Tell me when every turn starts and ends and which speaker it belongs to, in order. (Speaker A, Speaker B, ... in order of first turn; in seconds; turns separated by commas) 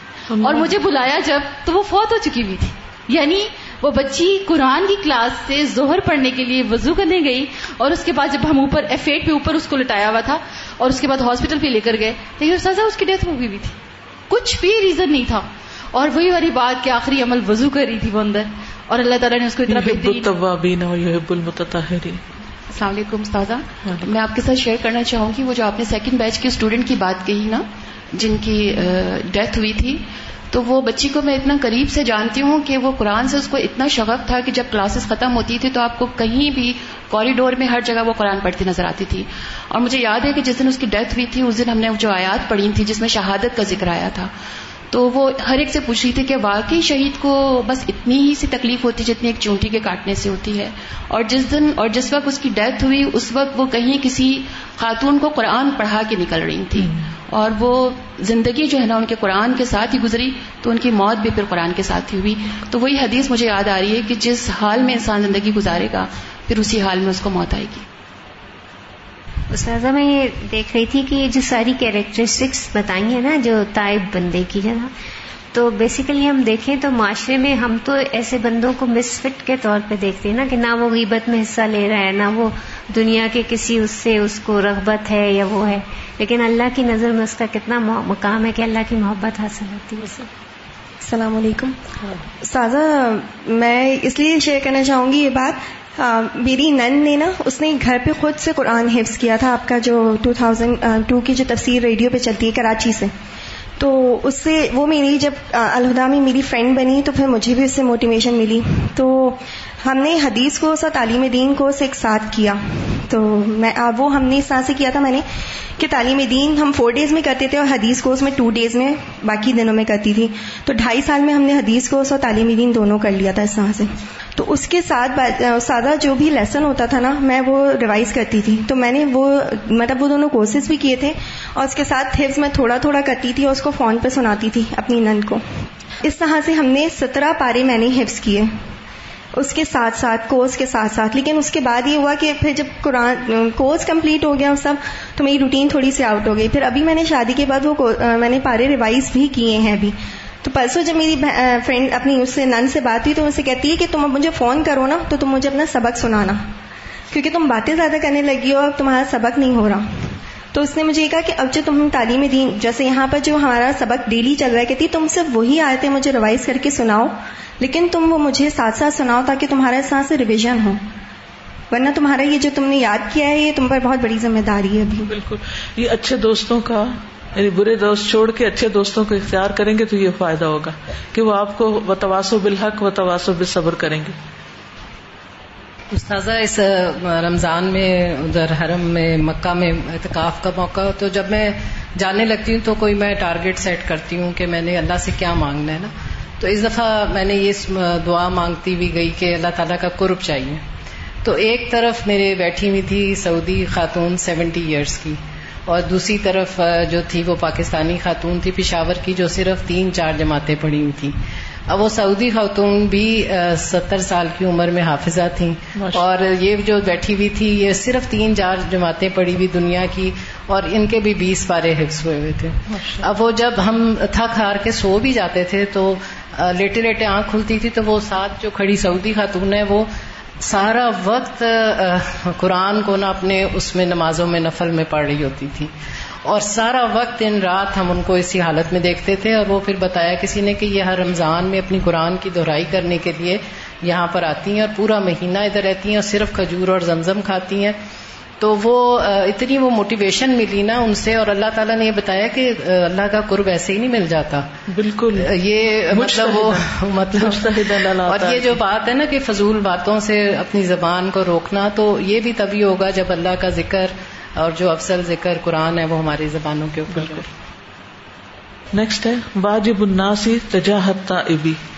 Speaker A: 0.3-0.8, Speaker B: 0.4-13.8, Speaker B: 14.3-20.3, Speaker A: 19.7-22.2, Speaker C: 22.7-44.3, Speaker C: 44.9-67.9, Speaker A: 56.8-57.0, Speaker D: 69.5-74.9, Speaker D: 75.5-90.2, Speaker E: 91.0-91.8, Speaker E: 92.4-103.1, Speaker E: 103.8-115.2, Speaker E: 115.8-135.4, Speaker E: 136.0-138.6, Speaker E: 139.4-156.4, Speaker E: 157.1-170.8, Speaker E: 171.7-175.1, Speaker A: 175.1-184.2, Speaker F: 185.9-200.6, Speaker F: 201.2-211.2, Speaker F: 211.7-229.9, Speaker A: 215.8-216.0, Speaker A: 222.7-223.1, Speaker F: 230.4-235.7, Speaker F: 236.2-247.8, Speaker F: 248.4-254.5, Speaker A: 254.7-255.3, Speaker F: 255.1-267.3, Speaker A: 255.9-258.6, Speaker A: 266.9-267.2, Speaker A: 268.7-271.6